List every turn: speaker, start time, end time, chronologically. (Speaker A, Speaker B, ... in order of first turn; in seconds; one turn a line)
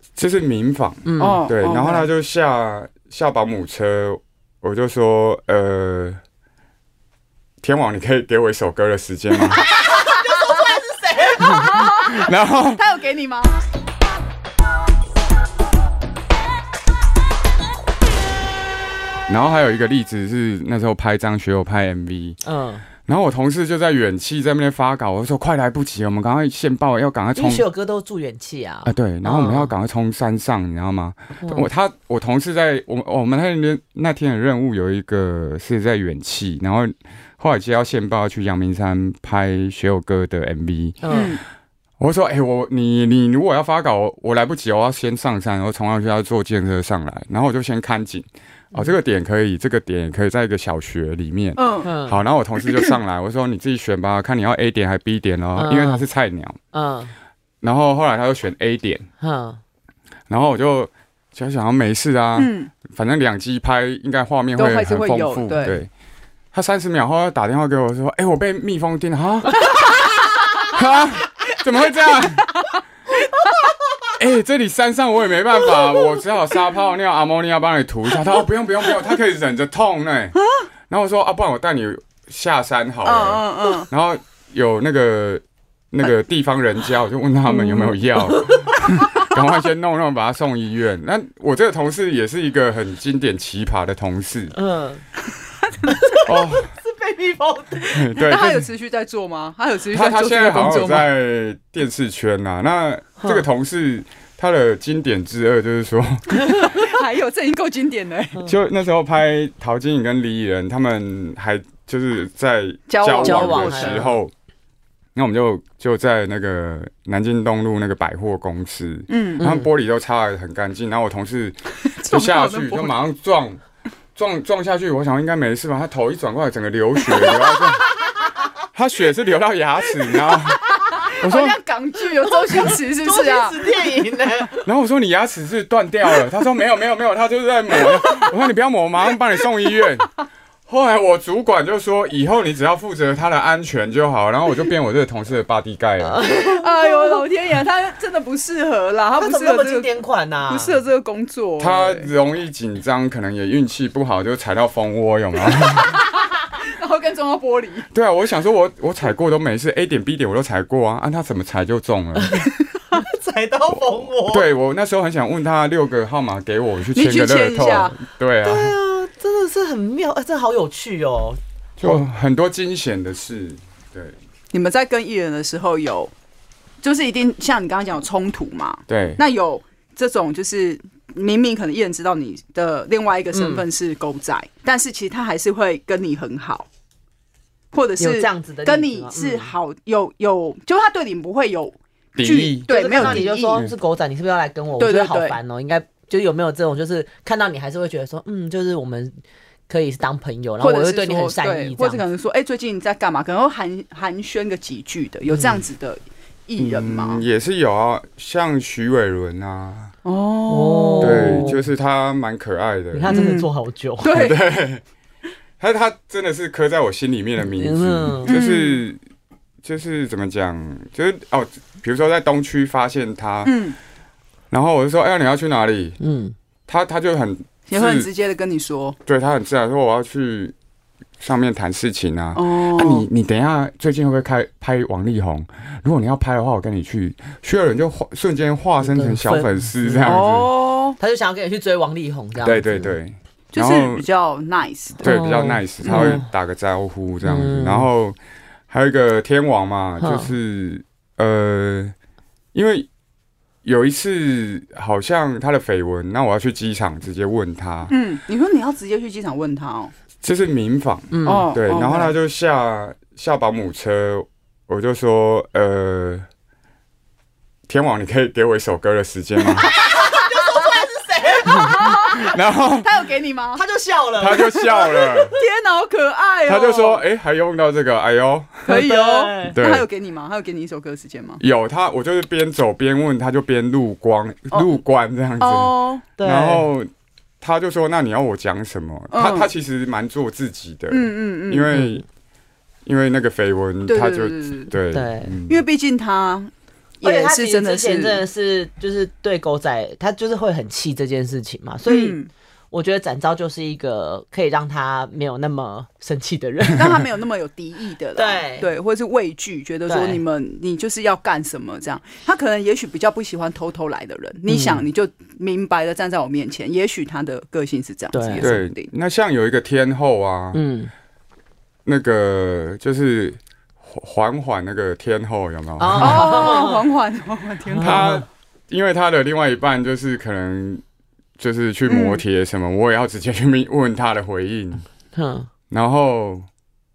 Speaker A: 0.1-6.2
Speaker B: 1.0-1.4
Speaker C: 1.2-2.1
Speaker A: 7.6-9.6
Speaker C: 9.5-10.8
Speaker B: 9.6-11.8
Speaker C: 11.3-13.6
Speaker A: 11.5-12.8
Speaker A: 19.3-22.4
Speaker B: 22.4-22.9
Speaker A: 23.0-27.6
Speaker B: 27.4-29.7
Speaker A: 28.9-41.0
Speaker B: 31.4-31.6
Speaker B: 41.0-41.4
Speaker C: 41.1-41.4
Speaker A: 42.0-56.6
Speaker C: 51.5-51.9
Speaker B: 51.8-52.2
Speaker B: 55.5-56.0
Speaker B: 56.7-57.1
Speaker A: 57.6-59.1
Speaker B: 59.2-59.6
Speaker A: 60.3-65.9
Speaker C: 62.4-62.7
Speaker C: 64.5-65.8
Speaker A: 66.5-69.9
Speaker A: 70.6-72.5
Speaker A: 74.2-80.4
Speaker A: 80.9-94.5
Speaker C: 83.0-83.9
Speaker B: 88.3-88.6
Speaker B: 94.5-95.0
Speaker B: 95.9-98.0
Speaker A: 96.2-96.7
Speaker A: 97.9-98.7
Speaker C: 98.2-101.1
Speaker A: 99.9-106.7
Speaker B: 106.4-106.8
Speaker C: 106.6-108.4
Speaker A: 108.5-114.3
Speaker C: 112.9-114.2
Speaker B: 113.2-114.2
Speaker A: 115.1-123.6
Speaker C: 119.1-119.4
Speaker B: 119.4-119.7
Speaker C: 122.0-123.0
Speaker A: 124.1-127.9
Speaker C: 127.0-128.1
Speaker A: 128.7-131.6
Speaker C: 130.1-133.9
Speaker B: 132.3-134.6
Speaker A: 134.6-140.1
Speaker A: 140.7-146.2
Speaker B: 146.0-147.2
Speaker C: 146.6-149.9
Speaker B: 149.2-150.8
Speaker C: 150.5-152.1
Speaker A: 151.6-155.9
Speaker C: 155.8-156.0
Speaker C: 156.6-157.9
Speaker A: 157.9-162.4
Speaker B: 162.2-164.4
Speaker A: 163.7-168.7
Speaker C: 166.9-167.9
Speaker B: 168.4-171.4
Speaker A: 171.8-174.2
Speaker C: 174.5-176.1
Speaker C: 176.8-186.7
Speaker A: 178.9-179.2
Speaker B: 183.3-183.6
Speaker C: 187.7-193.6
Speaker B: 188.0-189.5
Speaker A: 192.1-193.7
Speaker B: 192.7-199.2
Speaker C: 194.8-195.4
Speaker B: 199.7-202.0
Speaker C: 200.6-207.2
Speaker B: 205.3-205.6
Speaker A: 206.6-209.9
Speaker C: 210.0-211.5
Speaker B: 210.5-211.6
Speaker A: 211.0-213.2
Speaker B: 212.9-214.1
Speaker C: 213.1-214.4
Speaker A: 214.0-214.8
Speaker A: 215.6-219.0
Speaker B: 217.4-218.3
Speaker C: 218.3-218.8
Speaker A: 219.6-223.6
Speaker C: 223.4-223.8
Speaker A: 224.5-226.0
Speaker B: 226.0-226.3
Speaker A: 226.7-228.1
Speaker C: 227.7-229.0
Speaker A: 229.1-230.5
Speaker A: 231.2-240.5
Speaker C: 232.3-233.1
Speaker B: 238.8-240.2
Speaker C: 240.0-241.0
Speaker B: 241.0-242.9
Speaker A: 242.4-244.1
Speaker C: 243.5-245.1
Speaker A: 245.0-248.2
Speaker B: 245.0-246.2
Speaker C: 245.8-246.2
Speaker B: 247.2-247.9
Speaker A: 248.7-251.9
Speaker B: 250.0-250.3
Speaker A: 252.5-252.9
Speaker A: 253.6-257.9
Speaker C: 257.9-259.9
Speaker A: 260.2-266.3
Speaker B: 261.1-261.5
Speaker C: 261.2-262.1
Speaker A: 267.7-269.7
Speaker B: 269.6-272.1
Speaker C: 269.9-270.7
Speaker C: 271.3-273.6
Speaker A: 271.8-272.9
Speaker B: 273.5-275.4
Speaker A: 274.2-275.3
Speaker C: 275.4-277.0
Speaker A: 276.5-278.7
Speaker C: 278.6-281.4
Speaker B: 278.7-279.6
Speaker A: 279.4-279.9
Speaker A: 281.4-286.9
Speaker C: 285.4-286.0
Speaker B: 286.2-286.7
Speaker A: 287.4-292.0
Speaker C: 289.1-289.5
Speaker C: 290.9-291.7
Speaker B: 291.7-292.0
Speaker A: 292.9-295.6
Speaker C: 293.9-294.7
Speaker B: 294.9-295.4
Speaker C: 295.5-298.2
Speaker B: 297.0-302.2
Speaker C: 301.9-302.3
Speaker B: 302.7-307.1
Speaker C: 306.7-318.9
Speaker B: 308.1-308.7
Speaker B: 309.9-310.2
Speaker B: 314.5-314.8
Speaker B: 318.1-318.5
Speaker A: 318.4-320.6
Speaker B: 320.5-320.9
Speaker A: 321.8-326.5
Speaker B: 325.8-326.9
Speaker C: 326.0-328.1
Speaker B: 327.7-328.2
Speaker A: 327.8-330.8
Speaker A: 331.4-334.8
Speaker C: 331.9-332.2
Speaker B: 335.1-335.5
Speaker A: 335.7-336.4